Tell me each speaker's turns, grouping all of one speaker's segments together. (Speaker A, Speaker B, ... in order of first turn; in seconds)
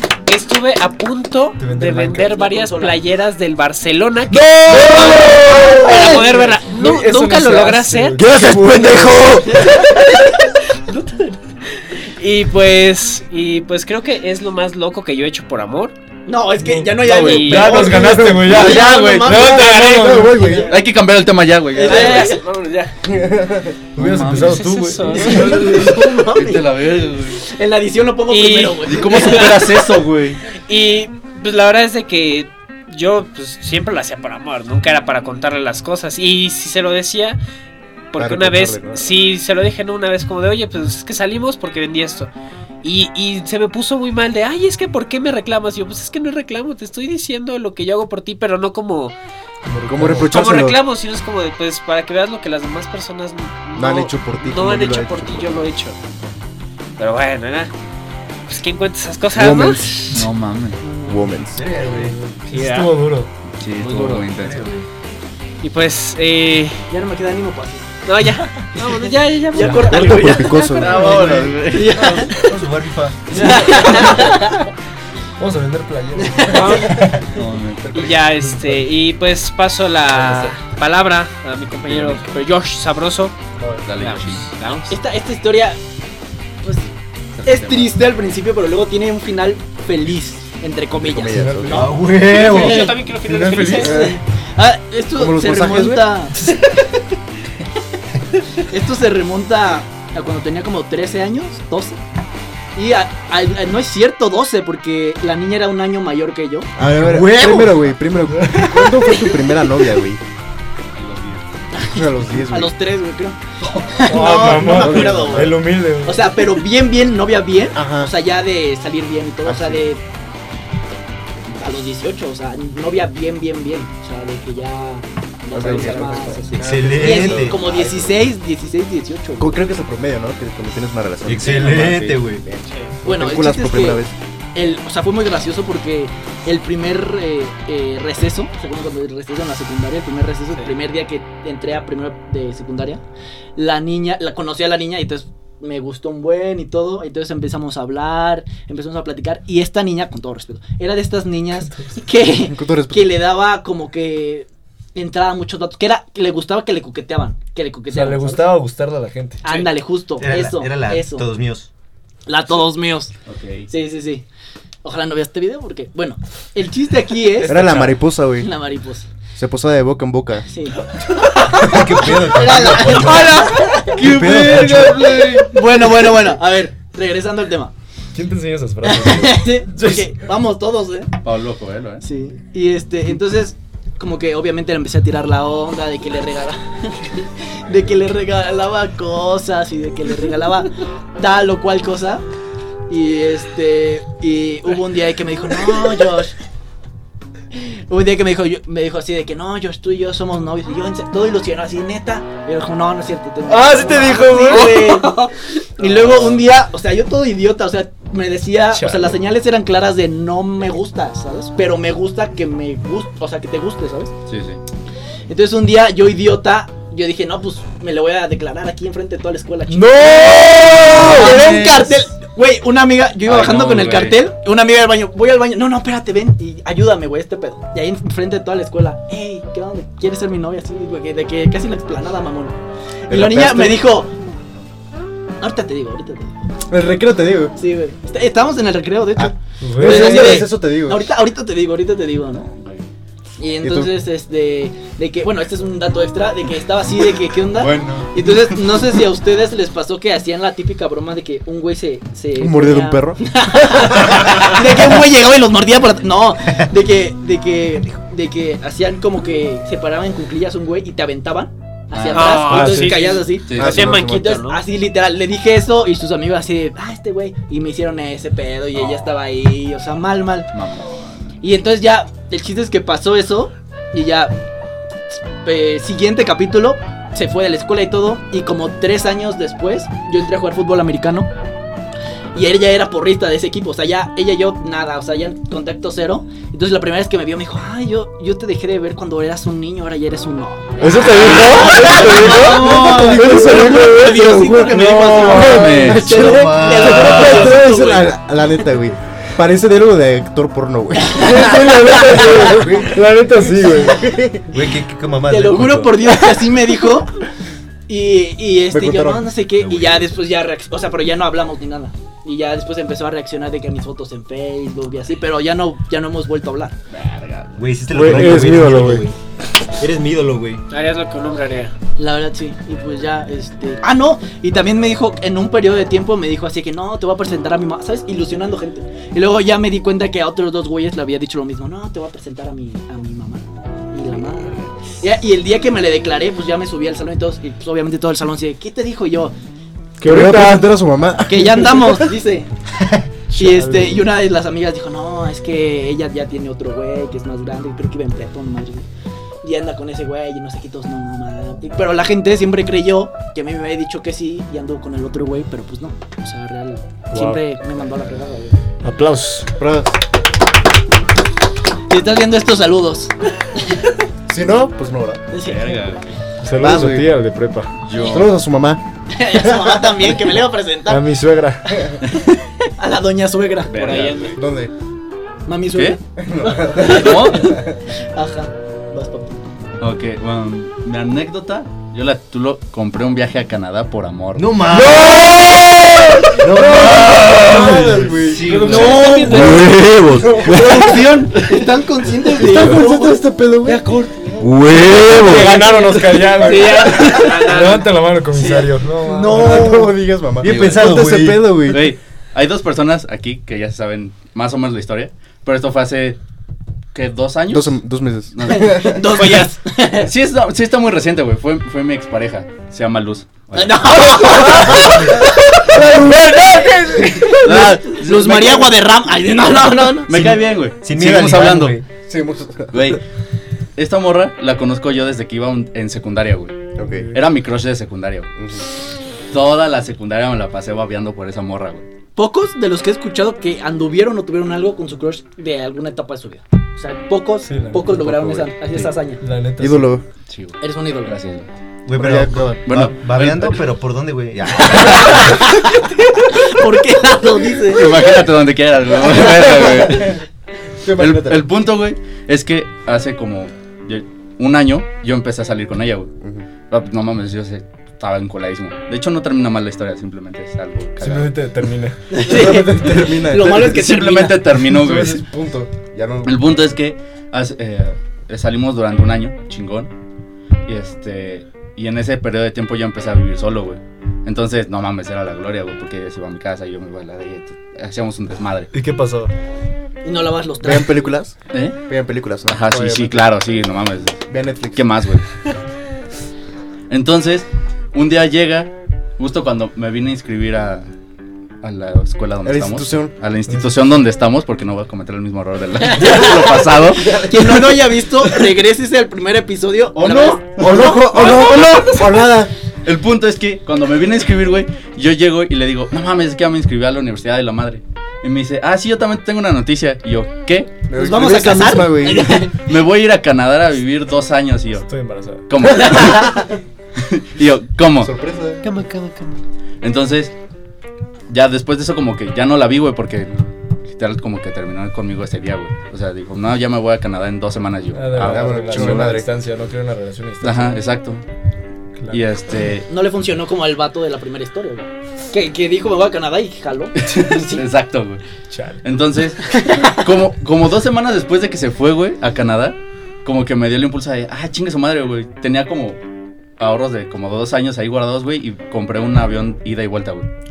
Speaker A: 0.3-8.2, 12.1-15.9, 17.1-17.9, 21.8-22.9, 24.3-25.9, 28.3-30.0, 30.7-37.4, 38.1-42.3, 42.8-49.1, 50.3-56.0, 57.0-57.7, 58.5-60.3, 62.5-62.9, 65.6-66.9, 68.1-71.1, 76.5-77.0, 77.9-83.3, 84.0-85.0, 92.1-94.1, 132.7-132.9, 262.1-264.6, 320.7-321.7, 373.8-374.4, 388.4-389.8, 396.4-397.9, 518.6-519.4
Speaker B: 1.6-2.2, 4.3-9.6, 16.6-20.4, 23.9-25.4, 49.6-50.3, 62.0-63.3, 71.0-71.5, 73.3-74.3, 75.4-76.9, 83.6-83.8, 91.4-91.7, 93.3-93.6, 108.4-108.7, 114.0-116.2, 151.7-151.9, 157.9-159.5, 174.0-175.4, 178.2-180.1, 203.5-205.1, 208.7-209.1, 219.7-221.7, 239.6-240.4, 262.5-262.9, 290.8-296.3, 297.1-297.7, 301.2-304.0, 317.9-319.1, 340.0-340.7, 343.3-344.0, 357.1-357.4, 358.8-359.5, 366.4-367.7, 370.9-371.7, 384.7-387.9, 388.4-389.4, 395.0-399.6, 415.7-417.1, 437.4-438.4, 439.2-439.9, 461.0-462.0, 464.8-465.2, 478.7-479.3, 514.9-515.5, 527.9-530.8, 532.0-532.2, 538.5-538.8
Speaker C: 1.7-2.0, 8.2-9.9, 61.5-62.1, 63.8-64.9, 72.4-73.6, 91.7-92.9, 106.9-107.8, 126.6-127.6, 131.2-132.4, 160.2-161.7, 167.5-167.9, 171.6-175.3, 296.1-297.4, 304.5-306.2, 309.6-310.1, 317.5-320.6, 342.8-343.0, 384.4-385.7, 386.4-390.9, 394.4-395.6, 400.4-401.8, 420.1-421.8, 441.9-445.4
Speaker D: 2.2-3.0, 5.9-6.3, 9.4-11.3, 16.3-20.9, 21.7-22.4, 25.2-30.1, 60.8-61.3, 66.9-68.0, 68.8-70.6, 71.7-72.6, 73.4-74.6, 76.2-77.0, 84.9-85.8, 86.6-86.9, 87.4-96.8, 98.7-102.0, 102.8-106.7, 111.8-120.0, 121.5-129.6, 133.1-134.0, 134.6-143.0, 143.6-158.5, 159.4-161.3, 162.2-163.2, 163.7-164.2, 164.8-167.7, 168.4-169.1, 170.5-174.2, 175.0-177.7, 178.8-181.1, 182.0-192.2, 192.9-196.3, 197.5-214.1, 215.3-234.1, 235.4-236.3, 237.6-242.5, 243.4-270.5, 271.4-274.4, 275.1-281.3, 282.3-298.2, 301.2-302.3, 305.3-307.1, 307.9-316.8, 322.0-339.4, 341.3-342.5, 343.3-348.9, 349.4-358.6, 361.9-363.9, 365.3-365.9, 369.1-371.1, 372.8-374.3, 375.5-379.4, 388.7-389.2, 390.4-394.4, 395.5-397.4, 398.3-400.0, 408.5-410.1, 413.5-415.7, 417.2-420.1, 432.1-439.2, 440.6-441.2, 444.7-448.3, 462.1-464.6, 480.0-481.1, 495.9-501.4, 510.9-512.7, 515.7-516.4, 532.9-537.7, 539.5-539.9
Speaker E: 17.0-17.6, 18.5-19.4, 20.7-22.4, 24.0-24.6, 25.4-27.4, 28.9-30.4, 60.1-60.8, 63.6-64.6, 70.8-72.2, 77.3-78.1, 81.9-82.3, 83.8-84.5, 87.4-87.9, 111.0-111.4, 131.5-132.2, 163.2-163.7, 181.2-182.0, 205.8-206.4, 214.3-214.6, 221.0-221.8, 223.2-224.2, 242.5-242.8, 263.5-264.0, 270.5-271.4, 295.3-296.1, 316.9-317.6, 365.4-366.1, 367.9-368.3, 373.7-374.4, 375.7-376.0, 376.9-377.5, 379.8-384.6, 400.4-401.0, 401.7-406.2, 406.9-408.8, 410.0-415.0, 417.2-418.7, 420.1-421.8, 422.7-423.0, 423.8-426.5, 427.1-428.3, 429.3-431.9, 440.3-441.5, 442.6-443.7, 447.7-450.2, 451.0-456.1, 456.7-461.4, 463.5-465.2, 466.2-469.9, 470.6-478.7, 481.5-481.9, 482.4-485.5, 486.9-490.9, 491.6-497.2, 500.0-500.5, 501.1-501.8, 502.8-510.8, 512.4-516.4, 517.0-518.1, 519.8-520.4, 521.3-529.2, 530.4-531.2, 532.1-532.9, 537.0-538.2, 538.7-546.0, 546.6-550.3
Speaker F: 17.9-18.4, 19.3-20.8, 23.0-23.9, 38.1-39.1, 49.9-50.8, 53.7-55.7, 59.3-60.2, 61.0-61.6, 69.6-71.5, 91.0-92.0, 93.6-94.2, 95.2-96.0, 106.8-110.2, 111.9-112.7, 114.2-115.5, 117.8-118.1, 119.5-119.8, 125.5-128.3, 129.4-131.9, 133.1-134.1, 152.3-153.1, 167.5-168.5, 169.3-170.5, 233.1-233.8, 236.7-237.6, 239.2-241.1, 243.6-243.9, 247.6-248.1, 252.4-254.1, 262.5-262.9, 263.5-264.3, 292.0-303.0, 303.6-304.5, 308.7-309.3, 318.1-318.6, 340.0-342.1, 359.6-359.9, 364.3-365.2, 366.5-367.1, 368.0-370.0, 374.2-374.7, 376.2-377.7, 387.3-389.6, 390.1-391.0, 392.3-393.9, 399.3-401.9, 407.5-409.1, 415.9-416.1, 422.1-422.9, 426.8-427.2, 428.4-428.7, 439.6-440.0, 441.9-442.6, 449.2-450.1, 450.8-451.5, 456.2-456.5, 462.2-463.8, 464.6-466.6, 480.6-483.4, 484.2-485.1, 492.4-493.2, 497.0-497.8, 500.5-502.5, 510.9-512.3, 518.0-518.6, 528.2-529.3